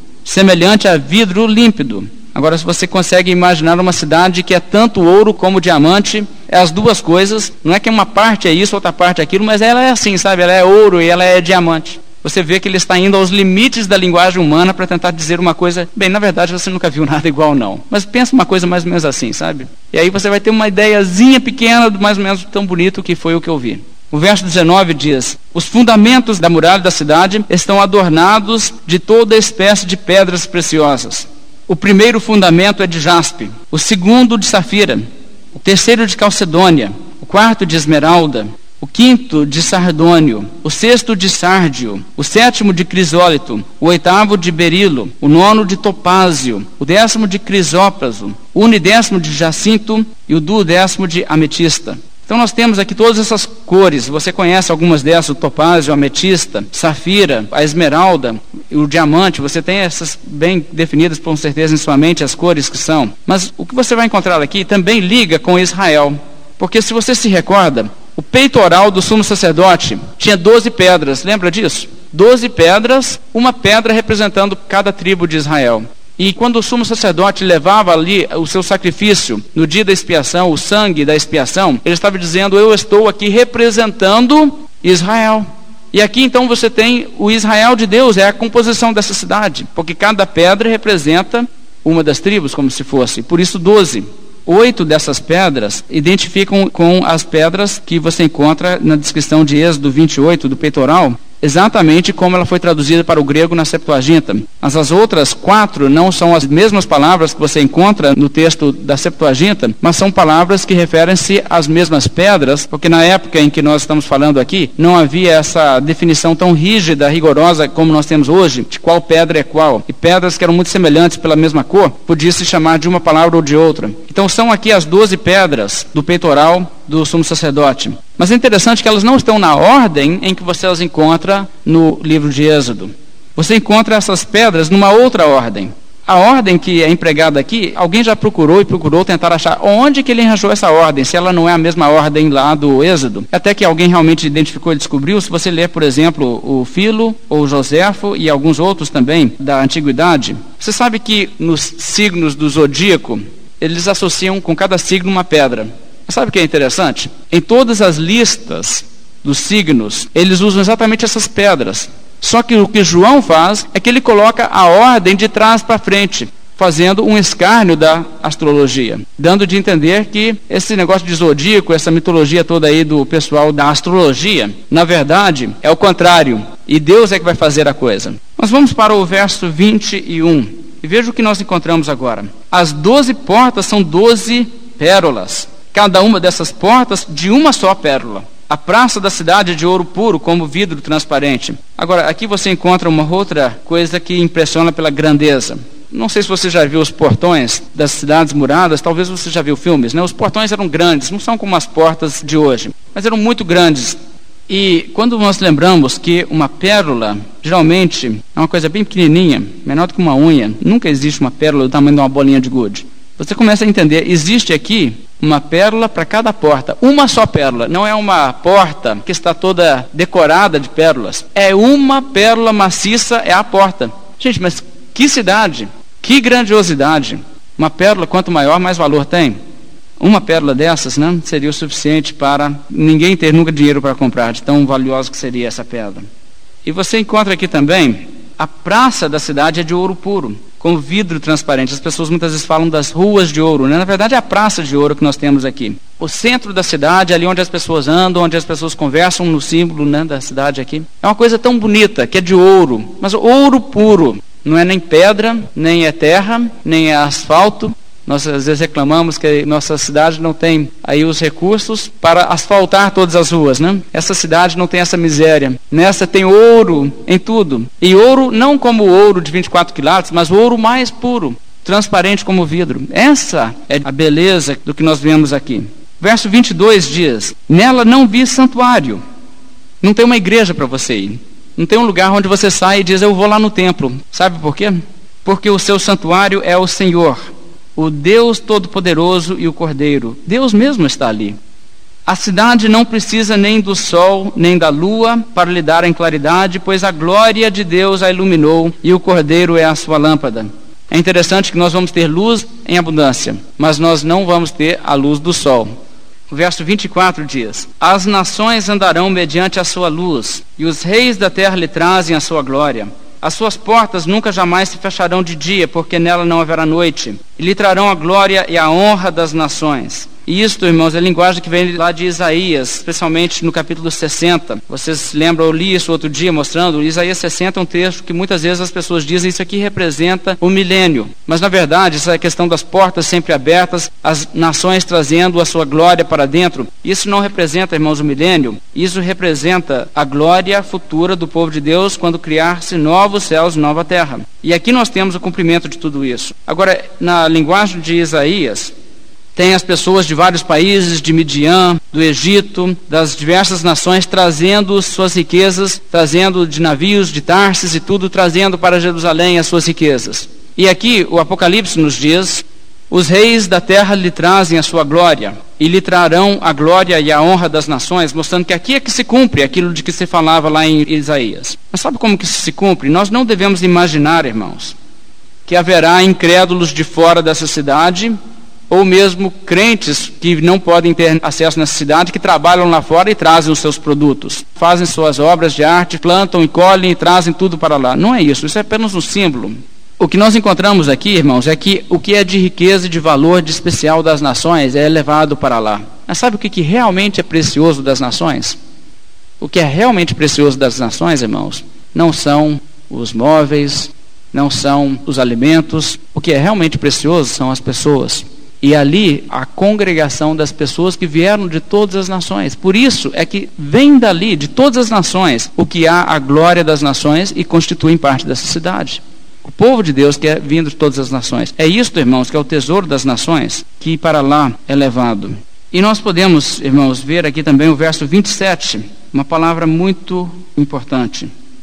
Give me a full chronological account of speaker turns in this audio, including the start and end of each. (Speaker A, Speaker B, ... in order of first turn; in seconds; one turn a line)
Speaker A: 0.2-229.4
Speaker A: 230.0-236.1
Speaker A: 236.7-279.0
Speaker A: 279.8-287.2
Speaker A: 287.8-291.4
Speaker A: 292.1-305.7
Speaker A: 306.3-348.7
Speaker A: 349.4-374.8
Speaker A: 375.5-378.2
Speaker A: 378.7-398.6
Speaker A: 399.4-431.3